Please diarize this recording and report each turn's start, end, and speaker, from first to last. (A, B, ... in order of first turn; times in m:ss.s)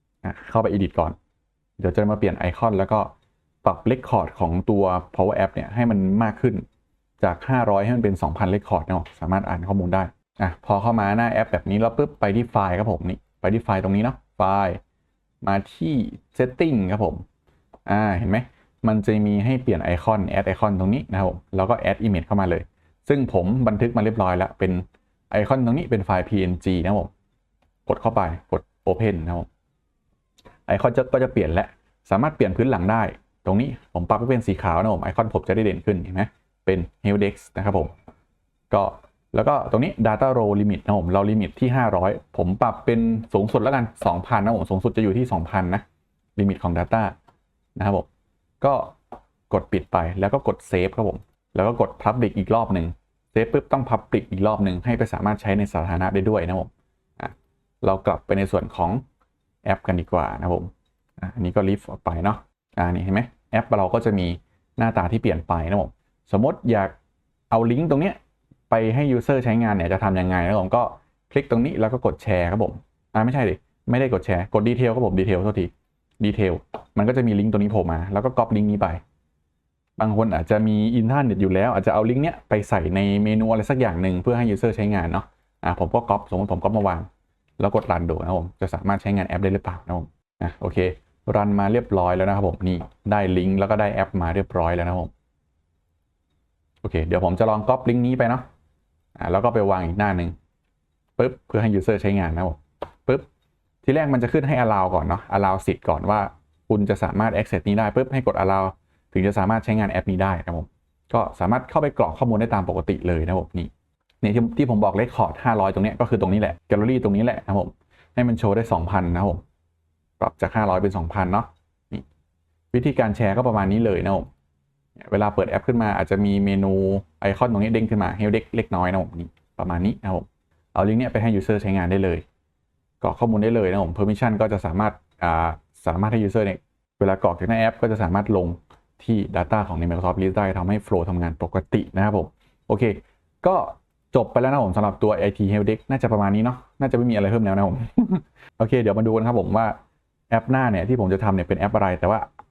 0:00.2-0:01.2 A
0:01.8-0:06.6 A
0:07.2-0:14.8 A
0:15.4-0:17.2 A
0:17.8-0:27.1 A
0:27.8-0:29.5 A
0:30.7-0:37.9 A
0:38.7-0:45.8 A
0:46.4-0:47.1 A
0:47.8-0:48.1 A
0:48.6-0:49.0 A
0:49.5-0:59.0 A
0:59.6-1:06.9 A
1:07.5-1:08.2 A
1:08.7-1:19.0 A
1:20.0-1:27.1 A
1:27.6-1:35.1 A
1:36.8-1:38.4 A
1:39.2-1:40.4 A
1:41.2-1:43.2 A
1:43.8-1:53.7 A
1:54.2-1:59.4 A
2:00.2-2:02.0 A
2:02.7-2:04.3 A
2:05.0-2:12.2 A
2:13.0-2:29.8 A
2:30.3-2:32.3 A